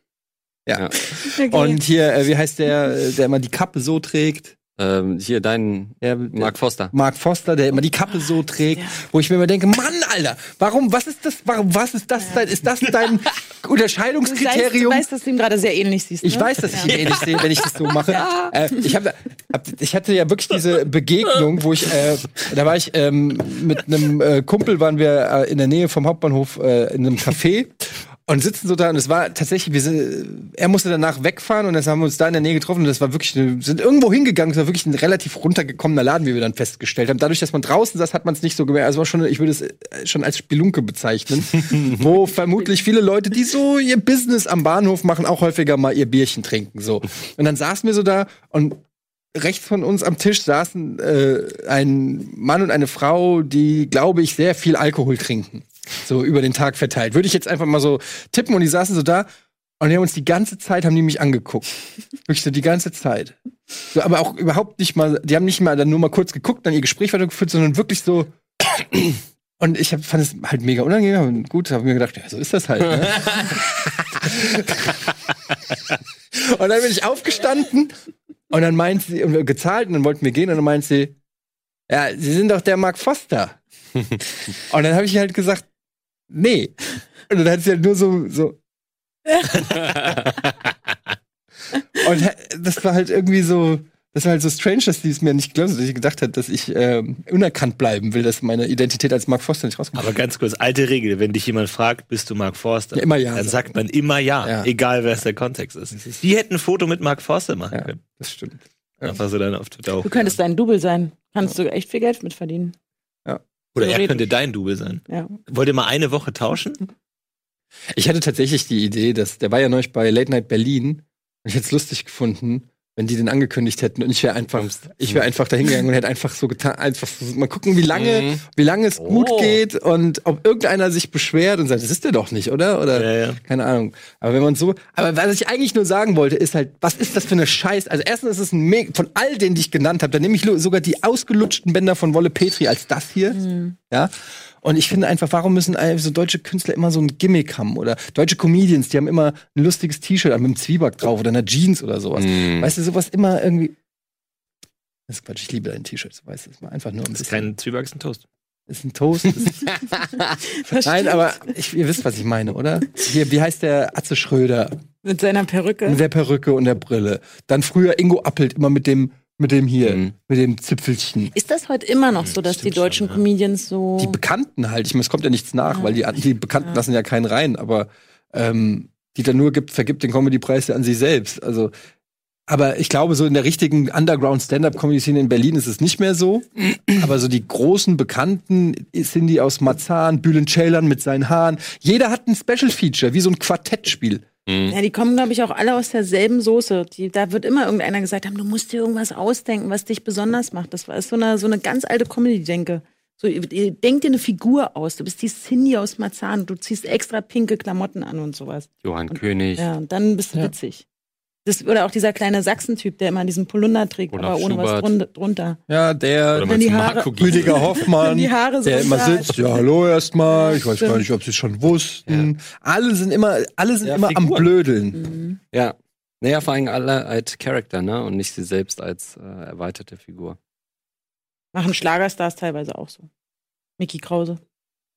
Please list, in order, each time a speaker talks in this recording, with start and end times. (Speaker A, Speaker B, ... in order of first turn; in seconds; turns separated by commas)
Speaker A: 0.7-4.5, Speaker B: 1.1-1.8, Speaker C: 4.8-6.9, Speaker A: 6.0-15.1, Speaker B: 14.2-17.0, Speaker A: 16.2-48.8, Speaker C: 16.9-17.2, Speaker A: 49.3-59.3, Speaker A: 59.8-61.7, Speaker A: 62.2-63.3, Speaker A: 63.9-75.1, Speaker A: 76.3-77.9, Speaker A: 78.5-81.1, Speaker A: 81.9-83.6, Speaker A: 84.5-85.7, Speaker A: 86.3-88.6, Speaker B: 89.3-89.6, Speaker A: 91.9-100.1, Speaker D: 99.9-108.0, Speaker A: 102.9-103.7, Speaker A: 104.4-104.7, Speaker A: 107.7-109.2, Speaker D: 109.0-110.3, Speaker B: 110.0-112.7, Speaker D: 113.7-116.8, Speaker B: 113.8-114.3, Speaker B: 115.1-115.3, Speaker A: 117.9-153.8, Speaker C: 127.9-128.4, Speaker C: 129.0-129.6, Speaker D: 132.9-133.4, Speaker B: 143.3-143.7, Speaker C: 152.2-152.7, Speaker A: 155.1-157.5, Speaker D: 157.1-158.2, Speaker A: 158.7-159.9, Speaker B: 160.5-161.2, Speaker A: 160.6-164.8, Speaker B: 165.0-166.0, Speaker A: 165.8-171.3, Speaker C: 169.8-170.1, Speaker B: 171.3-174.2, Speaker D: 172.2-173.2, Speaker A: 174.0-181.7, Speaker B: 175.7-176.0, Speaker A: 182.5-194.2, Speaker C: 194.5-194.8, Speaker B: 194.7-210.8, Speaker C: 208.8-209.7, Speaker B: 211.4-215.6, Speaker C: 214.1-214.9, Speaker A: 215.7-225.0, Speaker C: 216.3-217.7, Speaker B: 216.4-219.6, Speaker B: 220.3-221.0, Speaker D: 223.9-224.4, Speaker B: 224.9-225.4, Speaker C: 225.5-230.4, Speaker B: 231.5-233.1, Speaker B: 233.8-234.4